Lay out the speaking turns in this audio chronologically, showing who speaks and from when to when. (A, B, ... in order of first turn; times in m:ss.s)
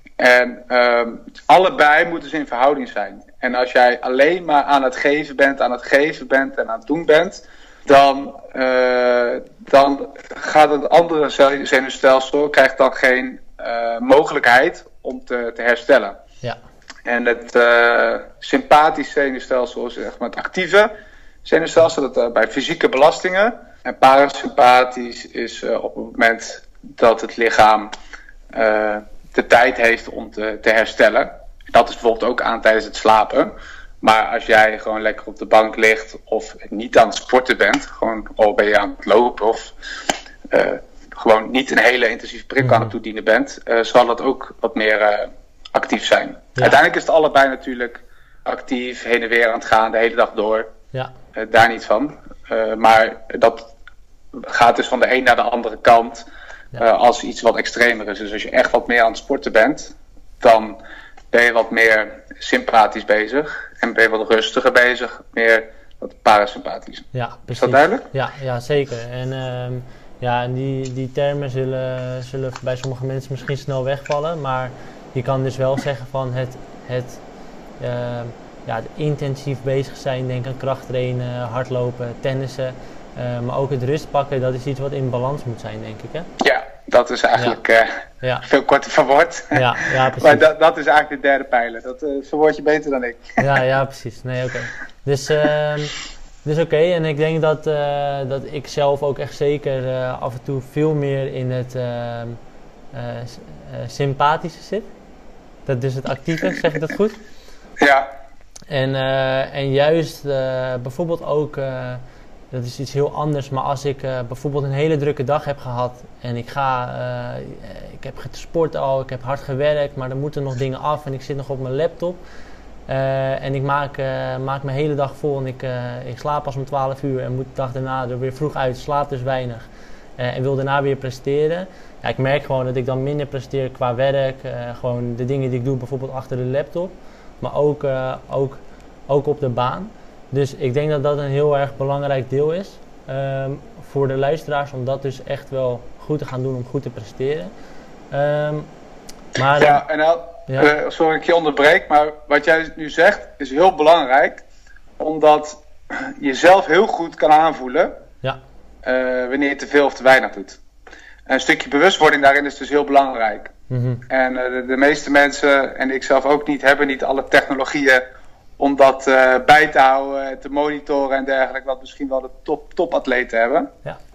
0:00.2-0:16.2 A
0:17.0-0:20.9 A
0:21.4-0:27.9 A
0:28.5-0:39.7 A
0:40.5-0:50.7 A
0:42.6-0:42.9 B
0:51.4-0:53.7 A
0:54.4-1:00.8 A
1:01.3-1:08.1 A
1:07.1-1:17.2 B
1:17.8-1:26.3 B
1:26.4-1:33.4 A
1:29.5-1:30.5 B
1:33.4-1:42.4 B
1:42.9-1:44.9 B
1:45.7-1:47.2 B
1:47.8-1:48.1 A
1:48.7-2:02.2 B
2:02.9-2:27.5 B
2:28.1-2:28.7 B
2:29.4-2:29.8 B
2:29.6-2:34.4 A
2:35.0-2:38.0 A
2:38.8-2:40.6 A
2:41.3-2:43.5 A
2:43.7-2:44.0 B
2:44.1-2:48.0 A
2:48.6-2:53.7 A